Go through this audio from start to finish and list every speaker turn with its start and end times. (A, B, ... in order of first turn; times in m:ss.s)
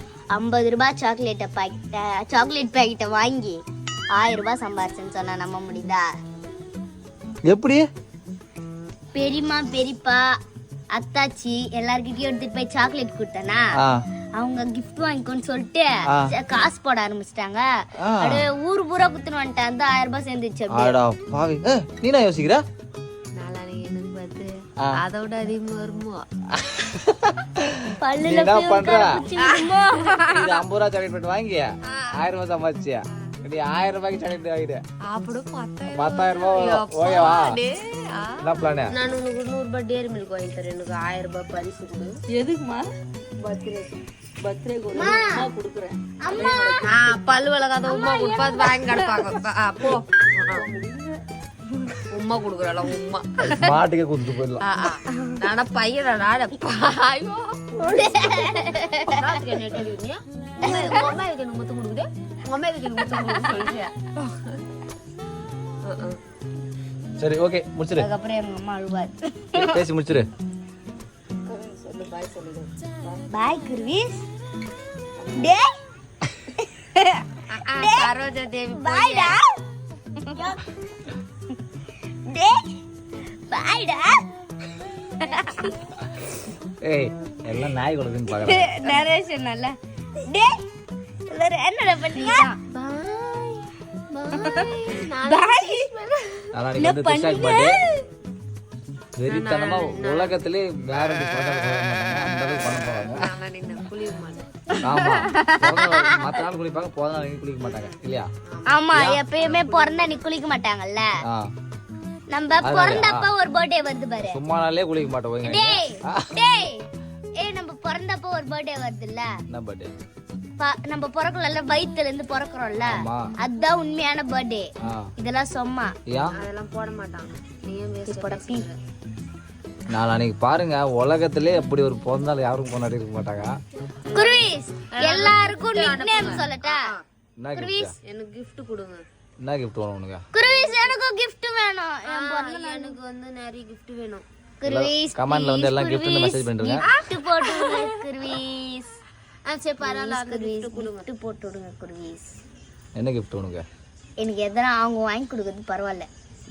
0:00.3-0:03.6 A
0:04.2-0:06.1 A
0:07.5-0:07.8 B
0:09.2-0:10.2 A
0:10.9-0:13.7 A
0:14.4-0:17.6 A
0:18.0-0:18.4 B
0:18.2-0:21.0 A
0:20.7-0:22.6 B
0:23.4-0:26.3 C
0:26.5-0:29.2 B
0:27.9-0:30.3 A
0:29.4-0:30.3 C
0:30.2-0:34.8 B
0:31.9-0:32.3 C
0:35.1-0:42.2 C
0:35.9-0:37.6 B
0:38.4-0:38.9 B
0:42.3-0:42.9 D
0:43.4-0:46.9 D
0:44.9-0:45.5 A
0:45.0-0:45.2 C
0:46.2-0:46.9 A
0:46.8-0:50.7 C
0:47.9-0:49.0 A
0:50.5-0:51.2 D
0:52.1-0:53.8 C
0:53.4-0:54.6 B
0:54.6-0:57.6 C
0:57.8-0:59.4 A
0:59.1-1:04.6 C
1:00.6-1:01.1 A
1:05.8-1:06.2 C
1:07.2-1:08.1 B
1:08.0-1:09.8 A
1:09.6-1:10.3 B
1:11.5-1:13.2 C
1:13.3-1:14.2 A
1:15.2-1:15.5 C
1:15.4-1:15.7 A
1:16.6-1:17.2 A
1:17.5-1:19.4 C
1:17.8-1:18.1 A
1:18.7-1:19.6 A
1:20.2-1:20.7 A
1:22.3-1:22.6 A
1:23.5-1:24.2 A
1:25.2-1:25.8 A
1:26.8-1:28.8 B
1:28.3-1:30.6 A
1:31.3-1:32.6 A
1:32.2-1:36.5 C
1:34.3-1:35.9 A
1:36.5-1:37.8 B
1:36.8-1:38.0 A
1:39.2-1:43.2 B
1:39.3-1:40.4 C
1:43.1-1:44.5 C
1:44.7-1:46.3 A
1:44.8-1:48.3 B
1:47.6-1:50.2 C
1:48.7-1:51.1 A
1:48.9-1:49.2 B
1:51.3-1:51.5 B
1:52.3-1:54.4 A
1:52.6-1:53.3 B
1:54.2-1:56.4 B
1:55.4-1:56.8 A
1:57.4-1:59.3 A
1:59.5-1:59.9 B
2:00.6-2:05.9 A
2:02.8-2:03.3 B
2:04.8-2:05.1 B
2:06.1-2:06.4 B
2:06.3-2:08.8 C
2:08.1-2:08.6 A
2:09.9-2:13.5 B
2:14.1-2:17.0 C
2:14.1-2:16.9 A
2:17.4-2:17.9 B
2:17.5-2:18.0 A
2:18.0-2:19.0 C
2:19.4-2:20.2 B
2:20.3-2:23.0 A
2:22.1-2:24.2 C
2:24.6-2:29.0 A
2:24.6-2:26.8 B
2:26.8-2:28.0 C
2:29.4-2:31.1 C
2:29.8-2:32.3 A
2:33.0-2:33.6 B
2:34.2-2:36.1 A